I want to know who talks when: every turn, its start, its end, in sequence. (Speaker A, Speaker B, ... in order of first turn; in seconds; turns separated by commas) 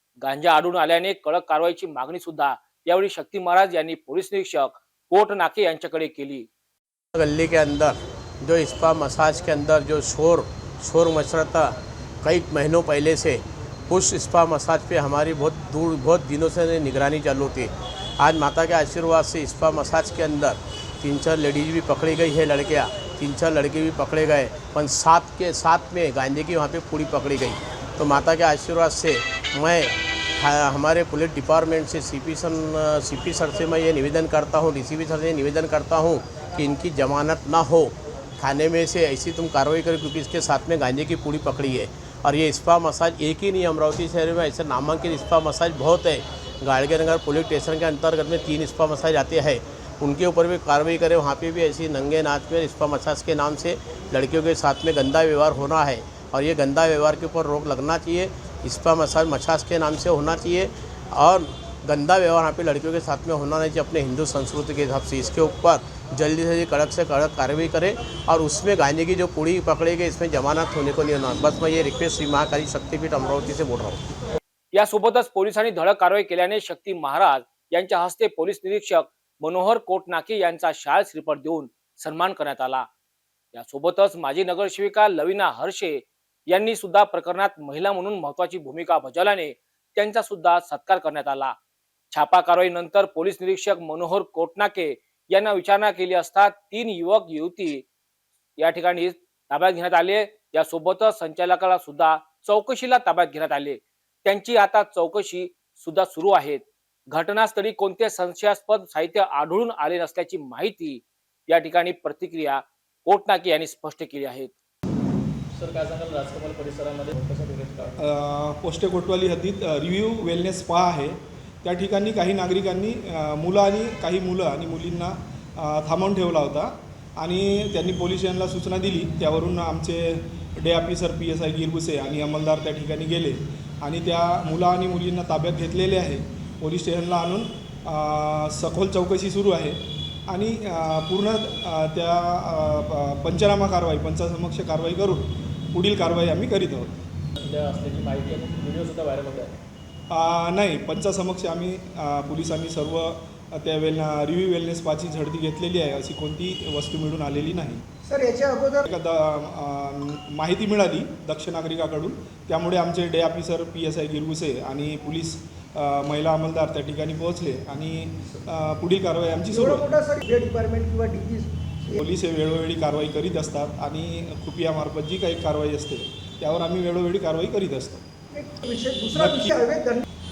Speaker A: 0.2-6.5, Speaker B: 7.1-74.0, Speaker A: 74.7-82.9, Speaker A: 83.5-91.5, Speaker A: 92.1-97.8, Speaker A: 98.6-114.5, Speaker C: 115.5-118.1, Speaker D: 118.0-147.0, Speaker C: 147.4-149.6, Speaker D: 150.1-157.8, Speaker E: 158.1-158.9, Speaker D: 158.8-169.9, Speaker E: 169.5-172.0, Speaker D: 172.0-178.0, Speaker E: 178.3-180.0, Speaker D: 179.1-179.6